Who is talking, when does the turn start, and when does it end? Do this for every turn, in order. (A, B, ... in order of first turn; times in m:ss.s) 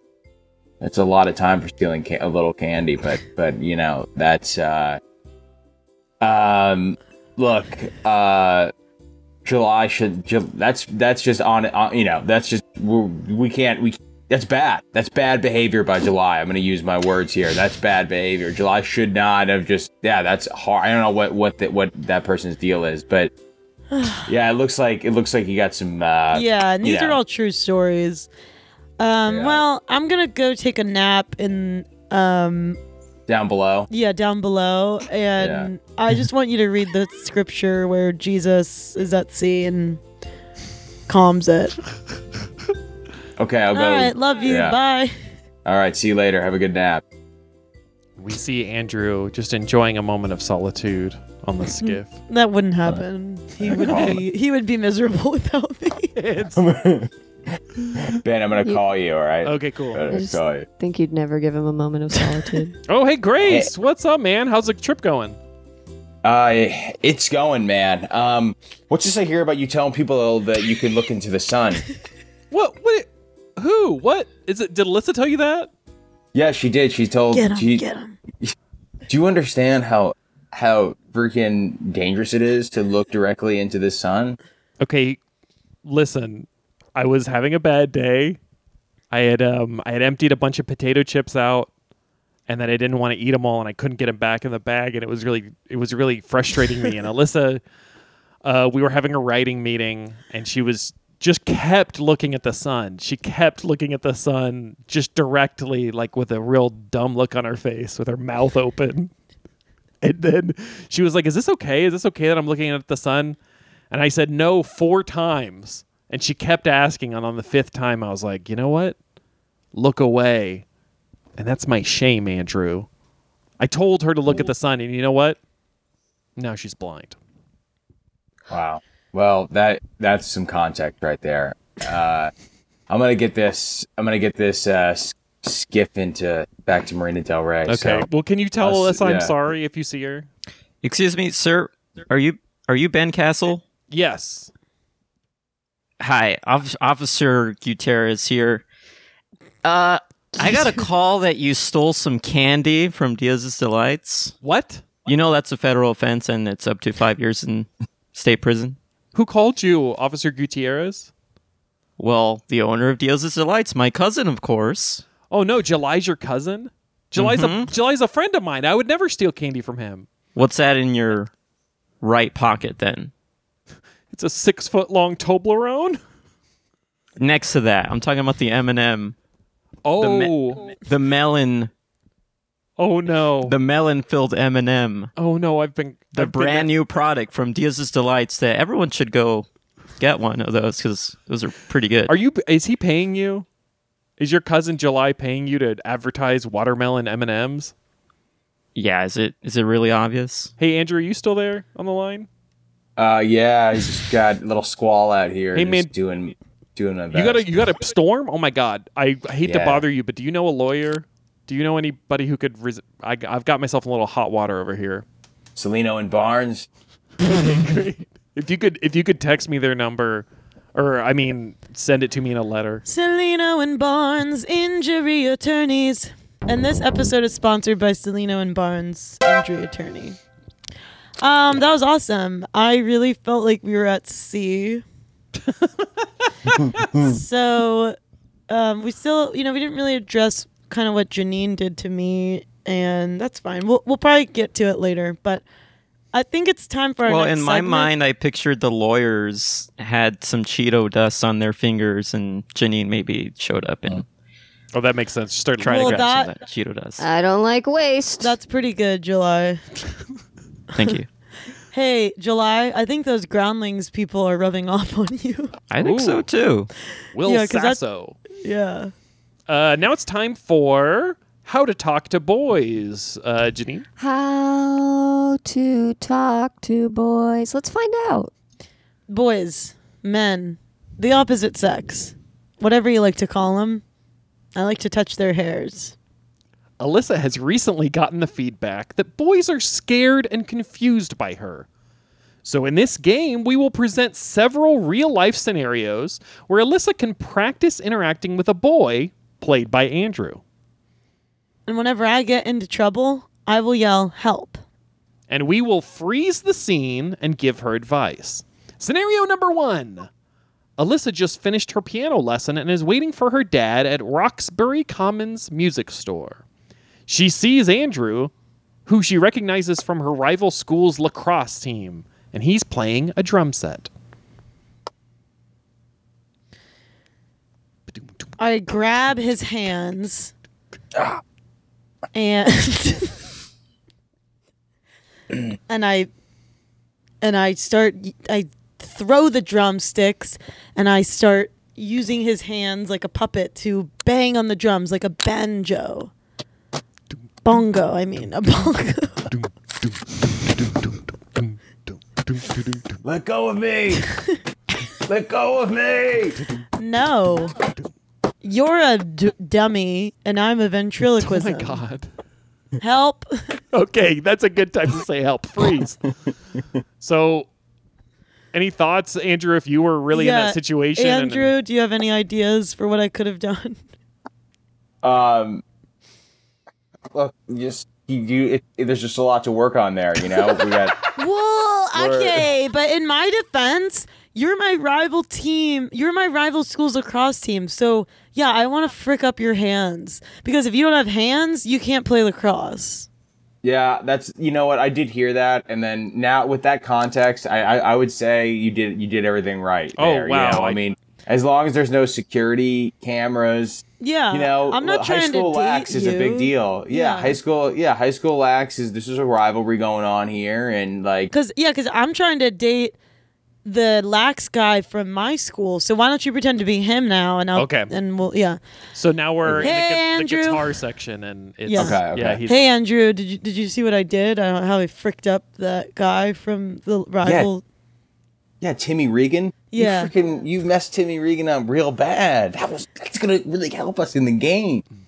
0:00.8-0:05.0 A
0:06.2-0:08.7 A
0:09.4-0:23.3 A
0:23.9-0:24.3 B
0:24.3-0:27.2 A
0:26.3-0:28.3 B
0:29.0-0:32.8 B
0:29.3-0:29.6 A
0:33.3-0:33.9 A
0:33.9-0:40.0 B
0:35.4-0:35.7 A
0:41.1-0:41.8 B
0:43.4-0:44.8 A
0:43.7-0:45.1 B
0:45.6-0:47.0 A
0:48.2-0:52.2 C
0:52.3-0:56.2 B
0:53.6-0:54.2 A
0:53.8-0:54.2 C
0:56.2-0:56.6 C
0:56.5-0:57.1 A
0:57.9-1:00.6 A
0:59.4-1:00.0 C
1:00.1-1:02.8 D
1:02.9-1:05.4 C
1:03.4-1:03.7 A
1:06.2-1:11.8 A
1:12.5-1:15.7 C
1:16.3-1:17.8 A
1:17.3-1:18.2 B
1:19.1-1:24.4 A
1:24.8-1:25.2 C
1:25.8-1:28.4 C
1:29.1-1:31.7 C
1:32.5-1:37.6 C
1:38.4-1:49.1 C
1:50.0-1:53.4 C
1:53.9-1:59.0 C
1:59.7-2:00.6 C
2:01.4-2:02.9 C
2:03.6-2:05.4 C
2:06.4-2:07.2 C
2:08.5-2:12.3 A
2:12.9-2:18.1 A
2:17.7-2:20.3 C
2:18.6-2:19.3 A
2:20.8-2:23.6 E
2:23.9-2:24.5 C
2:26.0-2:28.6 E
2:29.6-2:34.3 E
2:34.4-2:34.9 C
2:35.0-2:38.8 E
2:39.1-2:41.1 C
2:42.0-2:45.0 E
2:45.3-2:50.1 C
2:47.2-2:47.7 E
2:50.3-2:51.3 E
2:52.0-2:53.1 E
2:54.1-2:56.0 C
2:57.2-2:59.1 E
2:59.8-3:00.7 C
3:00.0-3:01.7 E
3:02.8-3:03.6 C
3:03.4-3:05.1 E
3:05.2-3:06.7 C
3:06.1-3:09.4 E
3:10.0-3:12.1 E
3:12.0-3:13.4 C
3:14.2-3:17.7 C
3:18.7-3:20.5 E
3:20.6-3:22.3 C
3:23.0-3:27.5 A
3:25.5-3:25.9 C
3:27.1-3:35.0 C
3:29.4-3:29.8 A
3:35.6-3:36.7 A
3:37.2-3:42.8 C
3:42.8-3:50.2 B
3:51.2-3:54.8 B
3:56.6-3:57.1 A
3:56.9-3:58.0 B
3:58.5-4:05.4 B
4:06.1-4:07.9 B
4:07.0-4:14.0 E
4:14.7-4:16.1 C
4:15.6-4:17.0 E
4:15.7-4:16.3 B
4:17.0-4:18.4 D
4:18.2-4:19.6 B
4:20.7-4:21.1 E
4:21.7-4:25.5 B
4:25.7-4:26.7 E
4:25.8-4:26.3 C
4:27.1-4:28.2 C
4:27.2-4:27.8 B
4:28.4-4:28.9 B
4:29.5-4:33.8 C
4:34.0-4:38.3 D
4:39.1-4:43.8 B
4:44.5-4:46.0 B
4:46.8-4:51.7 C
4:52.4-5:00.4 C
5:01.7-5:04.6 B
5:05.3-5:10.1 C
5:10.8-5:16.4 C
5:17.1-5:18.3 C
5:18.8-5:23.9 C
5:27.9-5:28.2 C
5:28.4-5:30.3 B
5:30.9-5:31.2 A
5:32.1-5:33.2 B
5:35.7-5:36.1 B
5:37.2-5:46.1 B
5:47.4-5:49.3 B
5:49.3-5:49.9 C
5:50.6-5:52.9 C
5:53.0-5:54.1 A
5:55.0-5:56.4 A
5:56.8-5:57.5 B
5:58.4-6:01.8 B
6:01.2-6:02.1 C
6:02.8-6:03.3 B
6:03.7-6:06.0 C
6:07.0-6:07.5 C
6:08.5-6:11.5 C
6:10.1-6:13.8 B
6:15.0-6:15.6 A
6:17.1-6:21.0 A
6:21.1-6:33.1 B
6:21.9-6:22.4 A
6:33.6-6:51.3 A
6:40.0-6:40.8 C
6:44.0-6:47.4 B
6:51.3-6:53.0 B
6:53.6-6:58.6 B
6:57.5-6:57.9 C
6:58.9-7:02.6 C
6:59.4-6:59.7 A
6:59.6-7:00.7 B
7:01.6-7:07.6 B
7:01.7-7:02.4 A
7:07.2-7:07.5 A
7:08.6-7:14.8 A
7:09.7-7:10.1 B